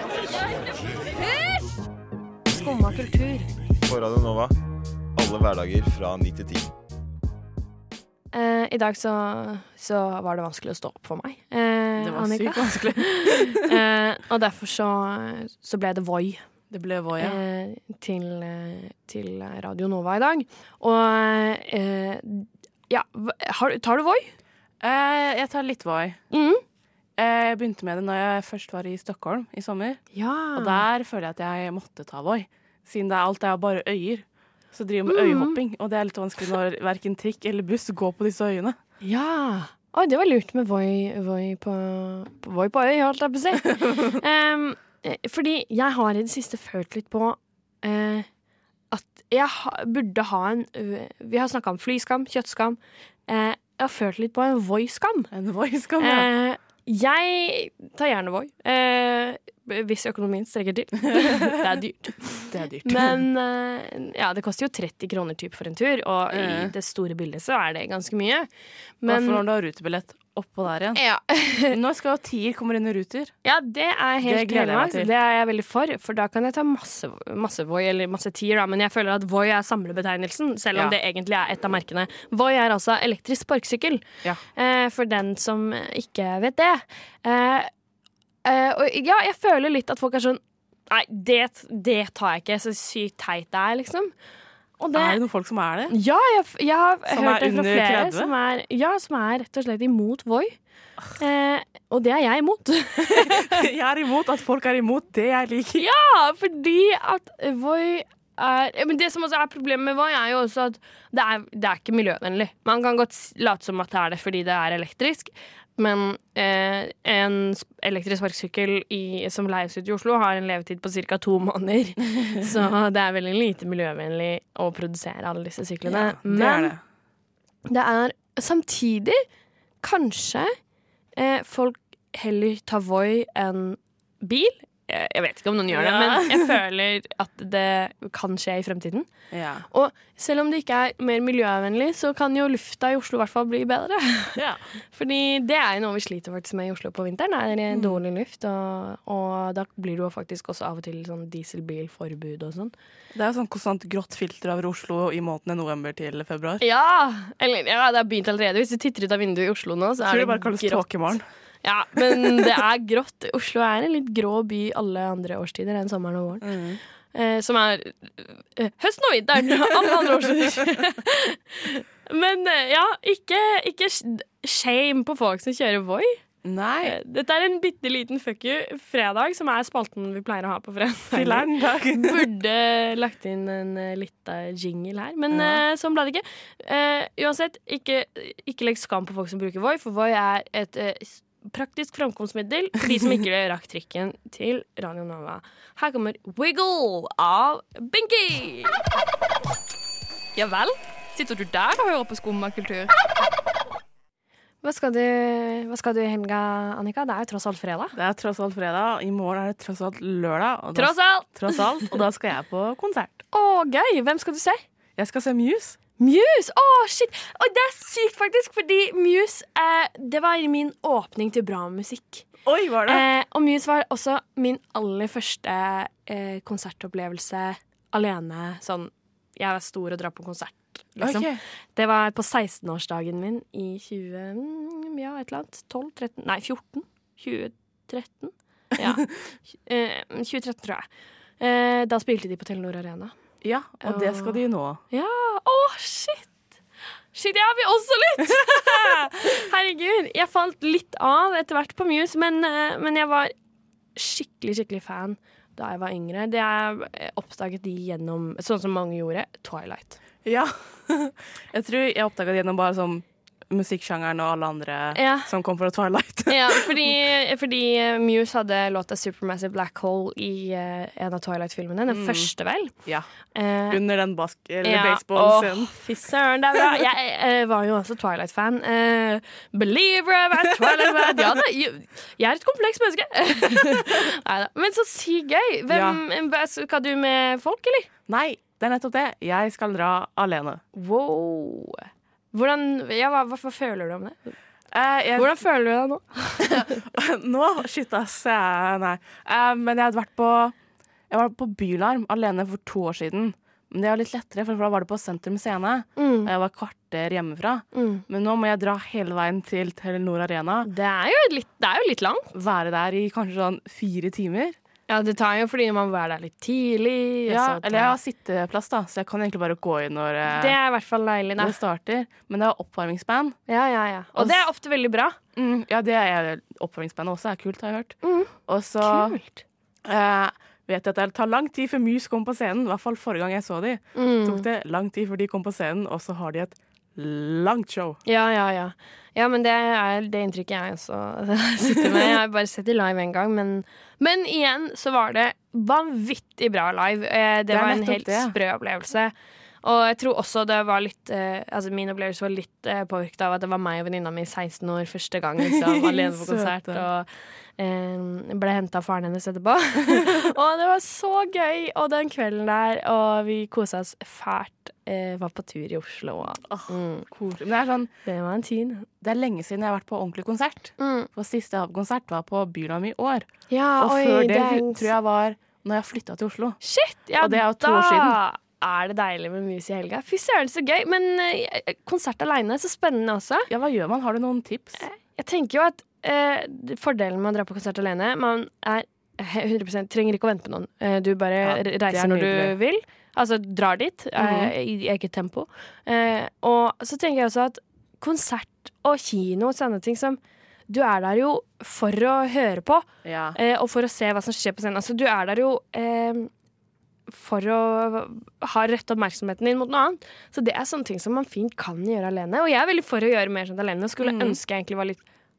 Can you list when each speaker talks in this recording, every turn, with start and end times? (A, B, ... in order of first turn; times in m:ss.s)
0:02.5-0:03.5 A
0:03.9-0:04.6 B
0:05.2-0:06.7 B
0:08.3-0:16.4 A
0:12.0-0:13.7 C
0:16.7-0:17.4 C
0:17.2-0:24.3 A
0:24.8-0:26.2 C
0:26.3-0:26.6 A
0:27.2-0:38.8 C
0:30.1-0:30.8 A
0:35.1-0:35.6 A
0:39.0-0:48.3 A
0:48.9-0:55.3 A
0:55.3-0:56.3 C
0:56.0-1:08.5 A
1:02.5-1:03.2 C
1:06.3-1:06.7 C
1:09.0-1:09.4 A
1:09.1-1:11.0 C
1:11.0-1:11.8 A
1:11.7-1:13.3 C
1:13.4-1:27.7 A
1:14.2-1:15.1 C
1:28.4-1:34.1 A
1:34.8-1:35.2 A
1:35.0-1:35.9 C
1:35.9-1:40.6 A
1:37.1-1:38.3 C
1:41.2-1:43.6 A
1:43.2-1:45.8 C
1:45.8-2:06.7 A
2:05.9-2:06.8 C
2:07.7-2:09.2 A
2:09.8-2:10.5 A
2:11.2-2:19.1 A
2:15.7-2:16.5 C
2:19.3-2:19.7 C
2:19.7-2:24.4 A
2:24.4-2:24.7 C
2:24.9-2:32.7 A
2:27.7-2:28.0 C
2:33.2-2:36.6 C
2:36.6-2:40.9 A
2:40.1-2:41.2 C
2:41.6-2:46.5 A
2:46.4-2:46.8 C
2:47.1-2:56.2 A
2:56.4-2:57.0 C
2:56.8-3:18.8 A
3:01.1-3:02.3 C
3:05.3-3:05.6 C
3:20.4-3:22.9 A
3:24.6-3:27.9 A
3:28.0-3:33.2 C
3:30.8-3:31.4 A
3:33.3-3:34.6 A
3:35.0-3:35.8 C
3:36.0-3:42.3 A
3:42.4-3:43.0 C
3:42.9-4:00.9 A
3:51.0-3:51.4 C
4:01.4-4:03.1 A
4:03.4-4:04.8 C
4:03.8-4:06.3 A
4:07.1-4:13.3 A
4:14.0-4:20.0 A
4:20.2-4:26.8 C
4:25.0-4:25.3 A
4:26.3-4:32.7 A
4:31.9-4:32.3 C
4:33.4-4:33.8 A
4:33.7-4:35.8 C
4:34.6-4:47.9 A
4:45.7-4:46.0 C
4:48.1-4:50.6 C
4:50.8-4:51.8 A
4:52.3-4:54.3 A
4:54.7-4:55.3 C
4:55.2-4:56.6 A
4:56.5-5:00.6 C
5:01.1-5:10.7 C
5:06.0-5:06.3 A
5:07.7-5:08.0 A
5:10.6-5:12.3 A
5:12.3-5:14.6 C
5:14.9-5:18.0 A
5:17.3-5:20.6 C
5:20.3-5:21.6 A
5:21.4-5:23.4 C
5:23.5-5:25.2 A
5:25.4-5:29.2 C
5:28.0-5:28.3 A
5:28.8-5:29.4 A
5:29.9-5:38.0 C
5:34.0-5:34.4 A
5:38.1-6:07.1 A
5:47.5-5:48.4 C
5:55.4-5:56.8 C
6:06.5-6:07.9 C
6:08.0-6:08.9 A
6:09.0-6:16.6 C
6:10.8-6:11.1 A
6:13.5-6:14.9 A
6:16.6-6:23.5 A
6:17.2-6:18.2 C
6:23.5-6:24.8 C
6:24.8-6:46.3 A
6:31.4-6:32.6 C
6:34.2-6:34.5 C
6:43.0-6:43.4 C
6:47.1-6:55.0 A
6:54.0-6:54.4 C